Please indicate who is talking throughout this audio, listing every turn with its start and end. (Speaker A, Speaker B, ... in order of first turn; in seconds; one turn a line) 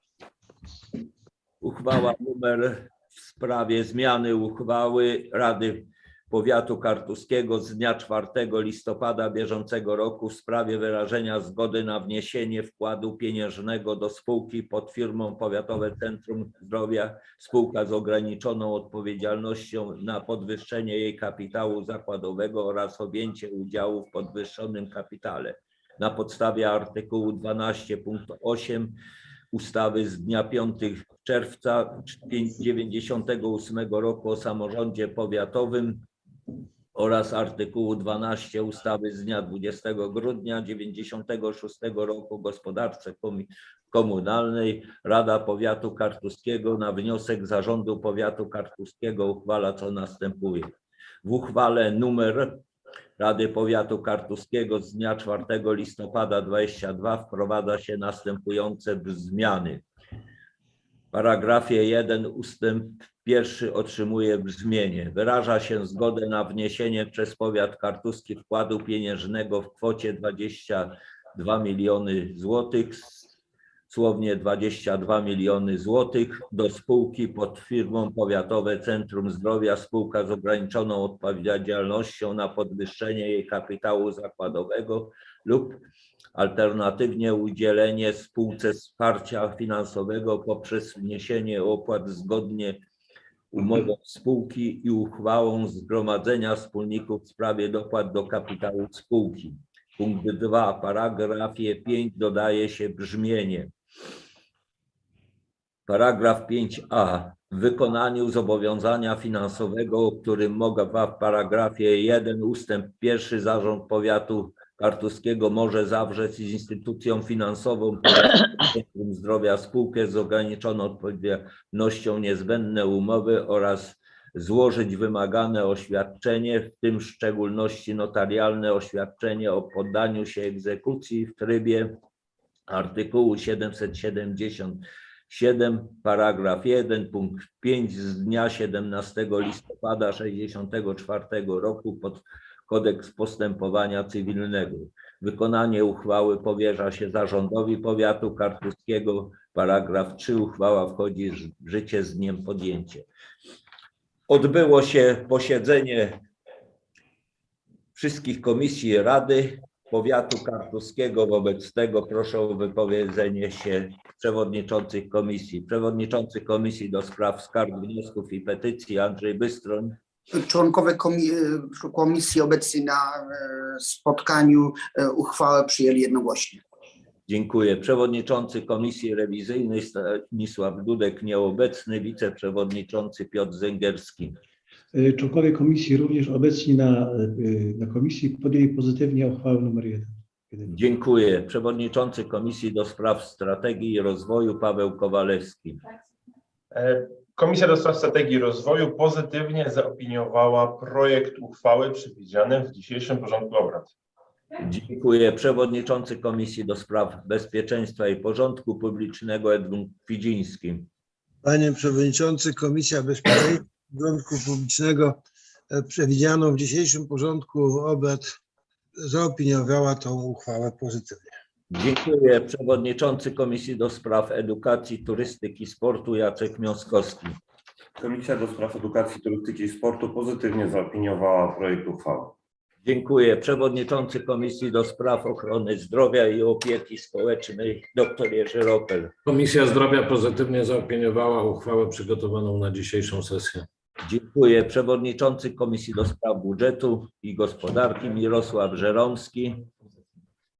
Speaker A: 1.6-28.9
Speaker A: 29.5-36.0
Speaker A: 36.9-50.7
Speaker A: 51.2-52.6
Speaker A: 53.2-59.8
Speaker A: 61.1-73.3
Speaker A: 73.9-85.8
Speaker A: 86.3-92.8
Speaker A: 93.5-103.7
Speaker A: 105.9-131.9
Speaker A: 132.7-153.1
Speaker A: 154.3-156.2
Speaker A: 157.9-169.9
Speaker B: 170.3-176.6
Speaker A: 177.3-184.3
Speaker C: 184.9-190.7
Speaker A: 190.7-195.8
Speaker D: 196.7-203.9
Speaker A: 204.6-210.8
Speaker E: 211.4-215.2
Speaker E: 215.7-218.3
Speaker E: 219.0-221.3
Speaker A: 221.7-227.3
Speaker F: 228.0-232.3
Speaker A: 232.8-239.1
Speaker G: 239.2-243.7
Speaker A: 244.0-249.6